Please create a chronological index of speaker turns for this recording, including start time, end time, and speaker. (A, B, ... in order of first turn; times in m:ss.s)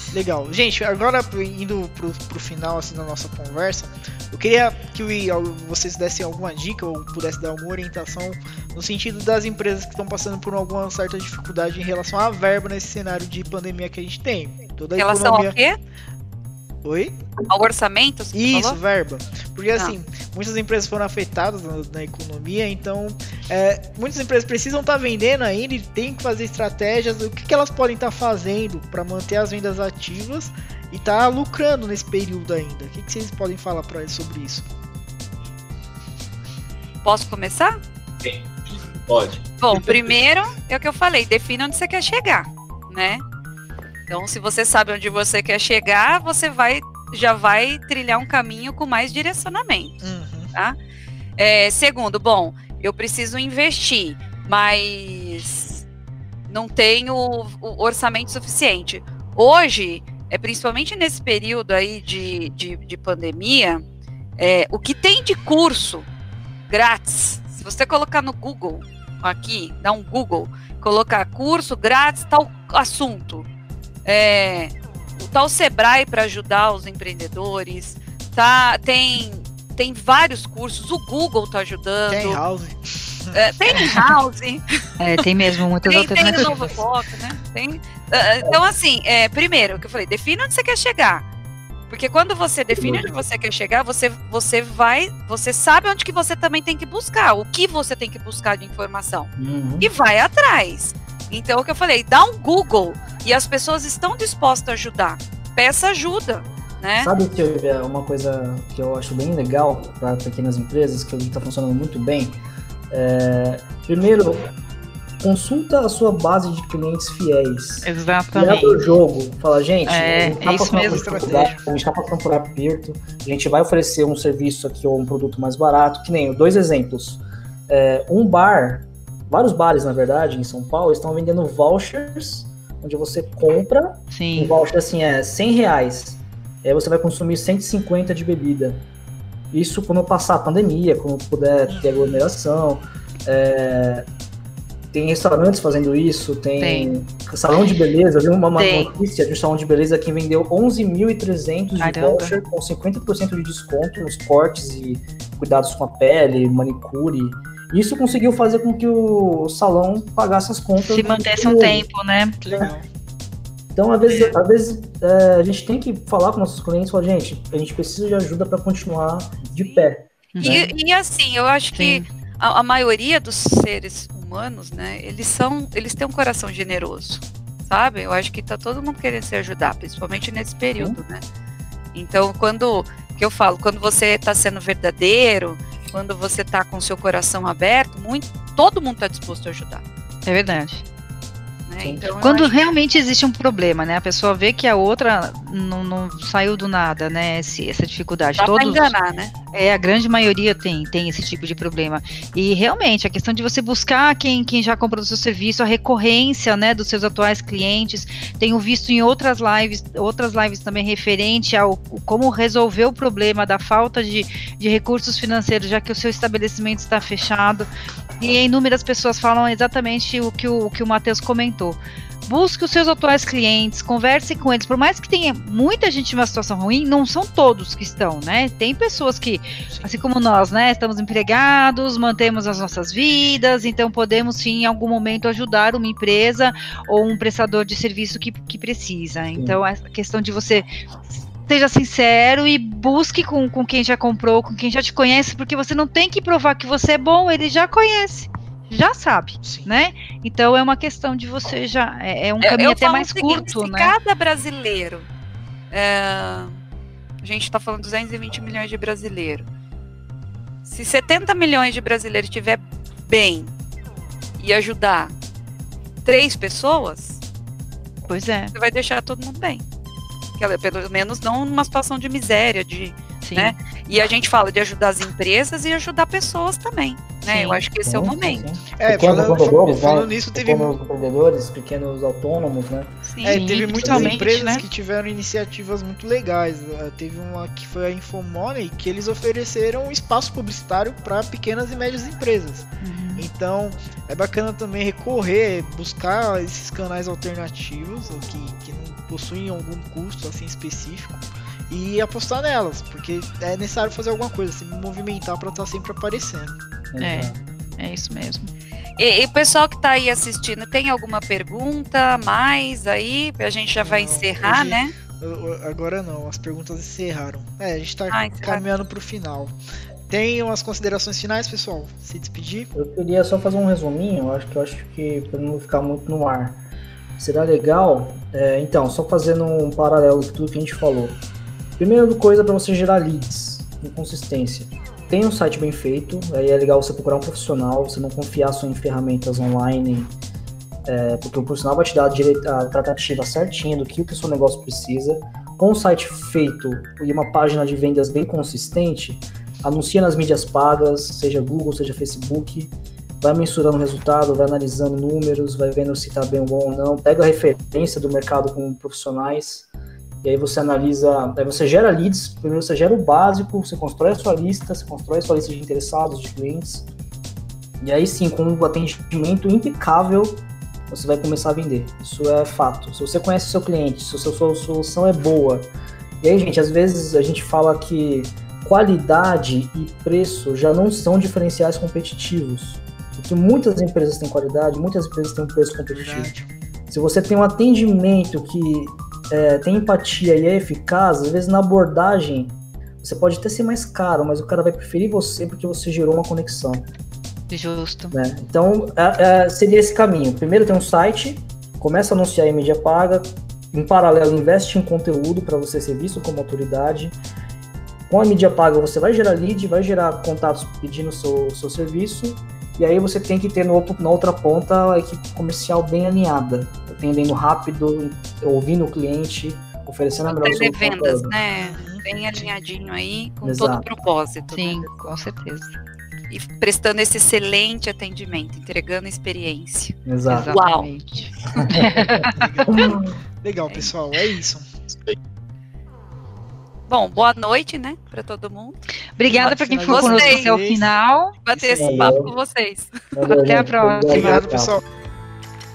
0:00.1-0:15.6 A
0:15.0-0:15.8 B
0:16.8-0:17.2 A
0:17.5-0:18.8 B
0:18.3-0:34.7 A
0:37.0-0:37.8 B
0:38.2-0:40.2 C
0:39.6-0:43.2 B
0:44.1-0:50.0 B
0:50.0-0:50.5 A
0:51.4-0:55.8 B
0:56.5-1:03.8 B
1:04.4-1:06.1 B
1:06.7-1:13.5 B
1:14.0-1:22.4 B
1:22.1-1:23.4 A
1:23.3-1:24.6 B
1:25.0-1:26.6 D
1:25.8-1:31.2 B
1:31.9-1:47.1 B
1:39.4-1:39.9 E
1:47.0-1:52.4 E
1:52.9-1:54.5 E
1:55.2-2:18.8 E
1:57.8-1:58.9 D
1:59.9-2:01.4 D
2:00.7-2:01.7 A
2:14.1-2:14.6 D
2:19.5-2:24.1 E
2:21.7-2:22.2 A
2:24.9-2:41.9 E
2:26.6-2:27.0 D
2:28.6-2:28.9 D
2:31.8-2:32.4 D
2:40.8-2:42.4 D
2:42.4-2:42.9 A
2:43.7-2:50.7 E
2:44.1-2:44.4 D
2:49.6-2:49.9 B
2:50.4-2:50.7 D
2:50.4-3:01.2 B
2:51.8-2:52.1 D
3:01.9-3:09.8 B
3:10.3-3:10.8 D
3:11.7-3:12.6 B
3:12.1-3:19.0 D
3:18.4-3:19.3 B
3:19.5-4:00.7 D
3:59.4-3:59.6 E
4:01.4-4:14.0 D
4:09.4-4:09.7 A
4:12.4-4:15.1 B
4:15.7-4:16.6 B
4:17.2-4:19.5 B
4:20.6-4:23.5 B
4:24.4-4:25.1 B
4:26.0-4:27.2 B
4:28.1-4:28.5 D
4:28.5-4:29.6 B
4:30.4-4:38.4 B
4:33.2-4:33.6 D
4:37.3-4:37.6 D
4:37.8-4:42.9 E
4:38.7-4:40.8 A
4:43.0-4:43.4 B
4:43.2-5:06.6 A
4:43.2-4:44.6 D
4:43.8-4:44.2 E
4:52.8-4:53.3 D
5:06.9-5:07.4 E
5:07.0-5:08.5 D
5:09.0-5:14.9 B
5:13.8-5:19.6 A
5:18.1-5:18.6 B
5:20.1-5:22.7 A
5:22.7-5:26.6 E
5:27.2-5:31.2 E
5:31.8-5:40.1 E
5:40.8-5:59.7 E
6:00.2-6:06.9 E
6:07.8-6:15.7 E
6:16.2-6:26.3 E
6:25.9-6:26.5 A
6:26.9-6:36.9 E
6:37.5-6:38.2 D
6:38.1-6:47.2 E
6:48.1-7:01.4 E
7:00.2-7:05.1 B
7:01.5-7:02.5 A
7:03.4-7:03.9 E
7:04.5-7:05.8 D
7:06.3-7:10.9 B
7:10.1-7:10.5 E
7:10.3-7:12.5 D
7:11.6-7:13.2 E
7:12.2-7:14.7 A
7:14.9-7:15.2 C
7:16.9-7:18.8 B
7:19.2-7:21.4 D
7:19.3-7:21.0 A
7:19.4-7:20.5 B
7:21.4-7:23.0 B
7:21.5-7:22.2 A
7:21.8-7:22.3 E
7:23.1-7:24.8 E
7:23.3-7:24.5 D
7:24.1-7:24.8 A